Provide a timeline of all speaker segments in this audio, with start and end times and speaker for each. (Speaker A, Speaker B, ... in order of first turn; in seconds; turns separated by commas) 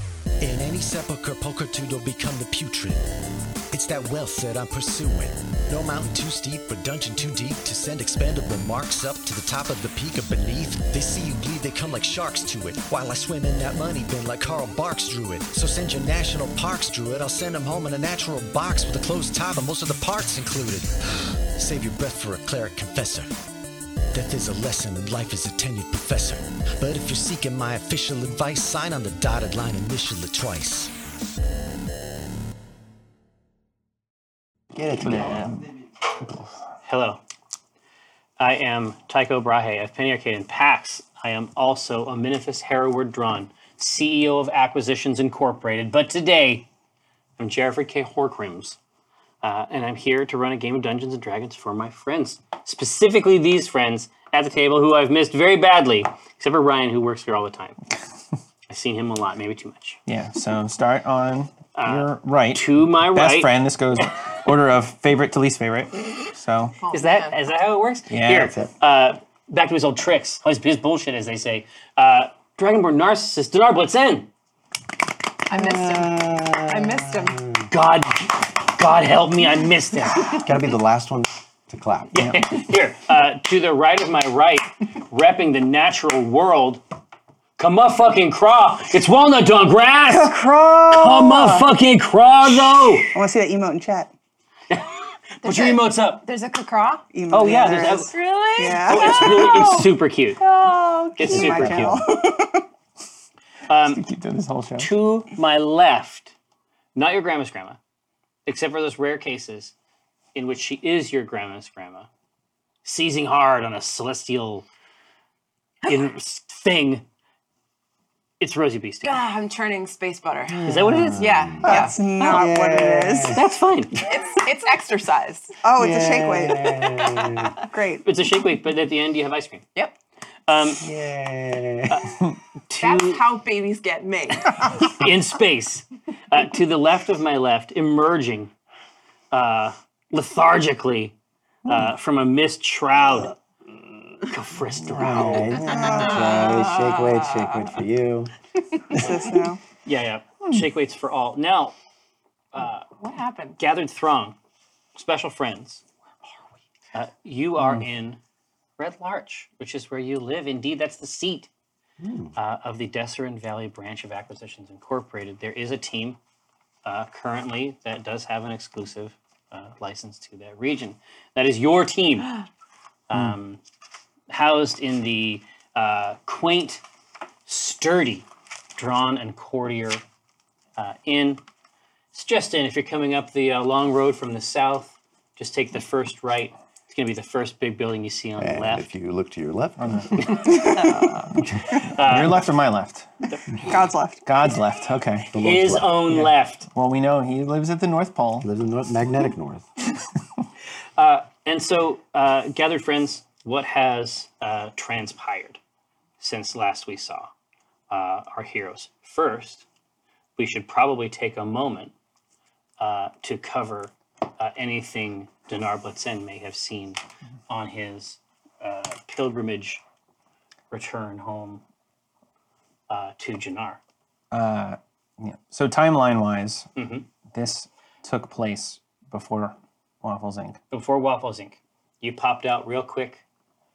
Speaker A: 0.4-3.0, Speaker A: 3.7-20.9, Speaker A: 21.5-23.3, Speaker A: 24.1-30.9, Speaker B: 34.7-35.7, Speaker C: 35.0-35.6, Speaker D: 36.8-37.2, Speaker D: 38.4-46.7, Speaker D: 47.4-48.8, Speaker D: 49.4-57.8, Speaker D: 58.7-60.0, Speaker C: 60.1-66.8, Speaker D: 61.7-63.5, Speaker E: 66.8-67.3, Speaker D: 66.9-74.3, Speaker C: 68.1-68.6, Speaker E: 75.5-77.4, Speaker B: 75.5-77.7, Speaker D: 77.7-80.5, Speaker B: 80.3-82.1, Speaker D: 82.1-86.8, Speaker D: 87.6-93.1, Speaker B: 90.3-90.9, Speaker F: 90.4-91.6, Speaker F: 93.1-94.1, Speaker D: 94.7-96.2, Speaker E: 95.4-97.0, Speaker F: 97.1-99.9, Speaker D: 97.3-98.1, Speaker E: 97.9-99.8, Speaker D: 98.7-100.4, Speaker F: 100.4-102.6, Speaker E: 100.6-101.0, Speaker D: 101.2-102.0, Speaker D: 103.7-104.0, Speaker C: 103.7-104.9, Speaker D: 104.8-106.3, Speaker D: 106.9-107.8, Speaker D: 108.5-109.7, Speaker D: 110.3-112.1, Speaker D: 112.8-114.7, Speaker D: 115.8-117.0, Speaker D: 118.4-119.2, Speaker E: 119.0-122.5, Speaker B: 120.5-123.4, Speaker D: 120.7-121.3, Speaker F: 121.6-123.4, Speaker D: 123.3-124.0, Speaker E: 123.9-125.5, Speaker F: 125.6-127.0, Speaker B: 125.8-127.6, Speaker F: 127.6-128.1, Speaker D: 128.0-129.6, Speaker D: 130.5-130.8, Speaker B: 130.8-132.0, Speaker D: 131.9-132.1, Speaker D: 132.7-133.2, Speaker E: 132.8-134.8, Speaker D: 134.9-138.5, Speaker D: 139.3-141.1, Speaker D: 141.7-145.8, Speaker B: 144.8-148.3, Speaker F: 145.7-146.3, Speaker E: 145.7-147.7, Speaker F: 148.9-149.6, Speaker D: 149.8-151.7, Speaker D: 152.5-152.8, Speaker E: 152.9-153.6, Speaker D: 153.6-154.3, Speaker D: 154.9-155.8, Speaker D: 156.9-158.2, Speaker C: 157.6-157.8, Speaker D: 158.8-161.5, Speaker B: 162.0-162.3, Speaker D: 162.3-166.2, Speaker D: 166.8-172.3, Speaker D: 173.1-173.6, Speaker C: 173.1-173.4, Speaker D: 174.3-176.8, Speaker D: 177.5-180.0, Speaker D: 180.8-181.4, Speaker D: 182.1-188.9, Speaker B: 188.4-190.6, Speaker C: 189.8-190.3, Speaker F: 190.4-190.9, Speaker E: 190.6-191.0, Speaker D: 191.8-192.4, Speaker C: 192.0-193.1, Speaker F: 193.6-194.3, Speaker C: 194.2-195.3, Speaker B: 195.3-196.2, Speaker D: 195.3-196.7, Speaker C: 196.1-198.5, Speaker B: 198.4-199.6, Speaker D: 201.0-205.6, Speaker D: 206.2-207.3, Speaker D: 207.9-209.7, Speaker D: 210.4-211.9, Speaker D: 212.8-219.8, Speaker D: 220.7-221.6, Speaker D: 222.9-223.8, Speaker C: 224.3-226.7, Speaker D: 226.8-227.1, Speaker C: 227.3-230.6, Speaker D: 230.7-233.2